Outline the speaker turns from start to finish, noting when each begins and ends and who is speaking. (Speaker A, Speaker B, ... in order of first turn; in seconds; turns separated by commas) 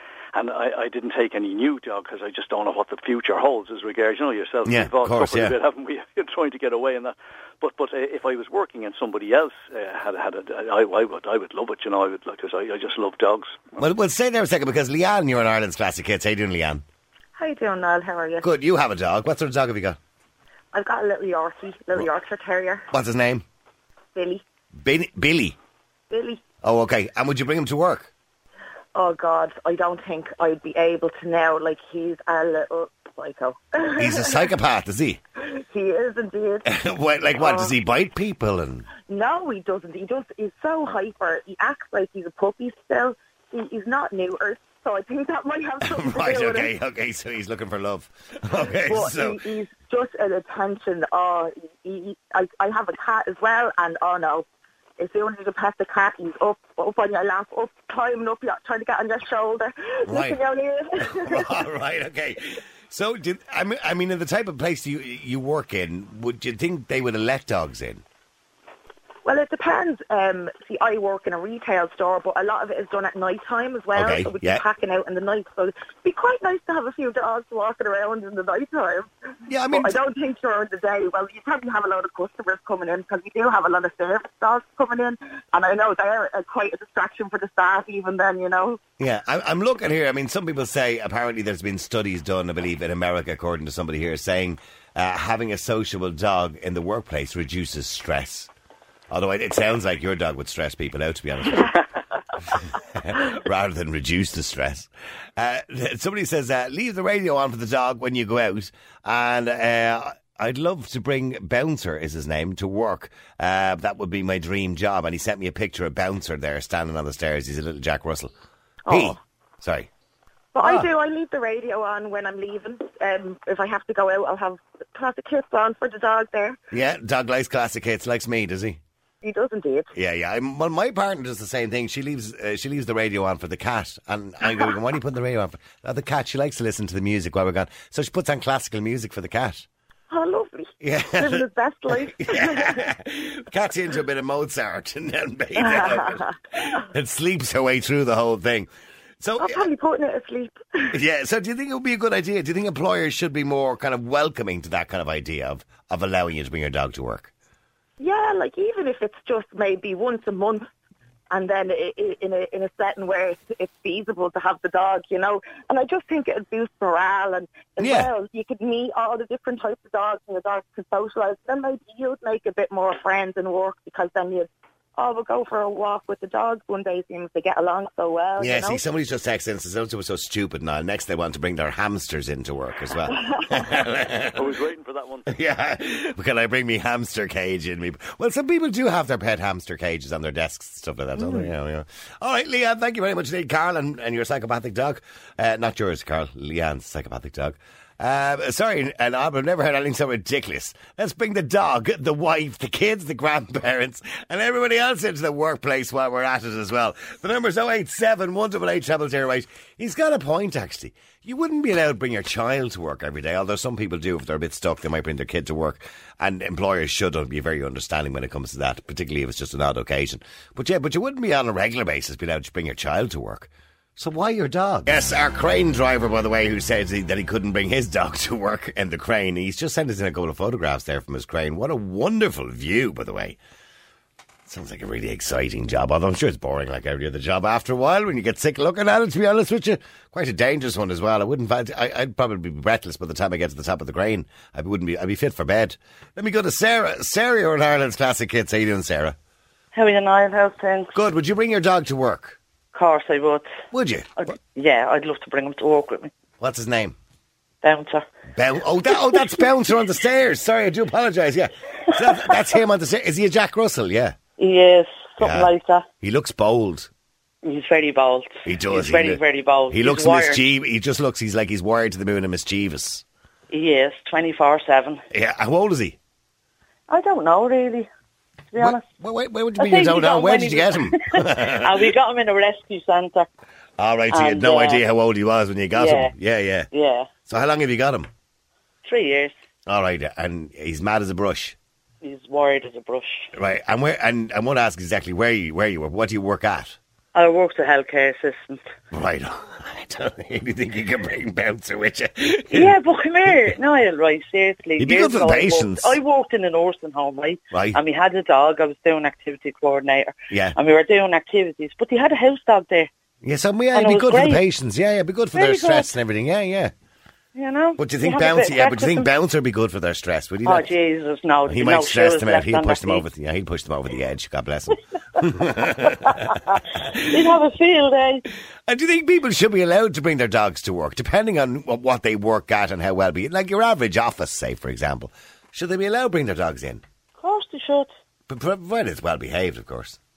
Speaker A: 0.3-13.7, Speaker B: 4.7-5.6, Speaker B: 13.8-16.8, Speaker C: 17.4-18.5, Speaker B: 18.4-20.0, Speaker C: 20.7-22.9, Speaker B: 22.9-23.4, Speaker C: 24.1-24.4, Speaker B: 24.8-25.6, Speaker C: 26.1-26.4, Speaker B: 26.6-28.1, Speaker C: 28.9-34.3, Speaker B: 34.0-35.2, Speaker C: 35.5-36.6, Speaker B: 36.7-38.9, Speaker C: 37.4-37.7, Speaker C: 39.1-46.7, Speaker B: 45.8-49.4, Speaker C: 48.9-54.5, Speaker C: 55.0-61.4, Speaker B: 60.1-60.4, Speaker B: 61.0-68.0, Speaker C: 69.2-79.1, Speaker B: 74.0-74.6, Speaker B: 79.5-80.0, Speaker C: 79.7-88.8, Speaker B: 89.0-98.5, Speaker B: 99.1-101.8, Speaker B: 102.5-118.3, Speaker C: 118.9-119.2, Speaker B: 118.9-119.9, Speaker C: 120.5-126.6, Speaker B: 120.6-120.9, Speaker B: 126.7-128.8, Speaker C: 129.2-129.9, Speaker B: 129.9-139.7, Speaker C: 140.1-142.8, Speaker B: 140.8-148.7, Speaker C: 145.6-146.2, Speaker B: 149.2-149.7, Speaker C: 149.4-150.9, Speaker B: 150.9-157.3, Speaker C: 158.0-160.6, Speaker C: 161.3-178.8, Speaker B: 167.8-168.1, Speaker B: 178.4-184.5, Speaker A: 184.4-185.3, Speaker B: 185.3-233.4, Speaker B: 234.5-249.2, Speaker D: 249.7-250.9, Speaker B: 250.9-252.4, Speaker D: 252.7-253.5, Speaker B: 253.7-254.1, Speaker D: 254.2-256.1, Speaker B: 256.4-257.0, Speaker D: 257.6-258.0, Speaker B: 258.4-264.1, Speaker D: 264.4-265.9, Speaker B: 265.2-266.9, Speaker D: 267.4-270.4, Speaker B: 268.5-273.0, Speaker D: 273.5-275.0, Speaker B: 275.1-276.0, Speaker D: 276.9-277.9, Speaker D: 278.5-278.8, Speaker B: 278.6-281.9, Speaker D: 279.6-283.3, Speaker B: 283.8-286.7, Speaker D: 284.1-284.8, Speaker D: 285.7-286.1, Speaker D: 286.7-287.1, Speaker B: 287.3-288.1, Speaker D: 288.8-289.3, Speaker B: 289.7-291.6, Speaker D: 292.0-293.3, Speaker B: 293.4-296.8, Speaker D: 297.1-298.6, Speaker B: 298.9-303.4, Speaker D: 302.5-312.9, Speaker B: 304.8-306.0, Speaker B: 307.5-307.8, Speaker B: 310.3-310.6, Speaker B: 313.2-316.7, Speaker D: 313.7-314.4, Speaker D: 315.4-315.9, Speaker D: 317.4-319.1, Speaker B: 317.8-320.7, Speaker D: 320.4-323.1, Speaker B: 321.4-326.6, Speaker D: 326.7-328.2, Speaker B: 328.7-336.8, Speaker D: 337.2-337.9, Speaker B: 338.3-340.0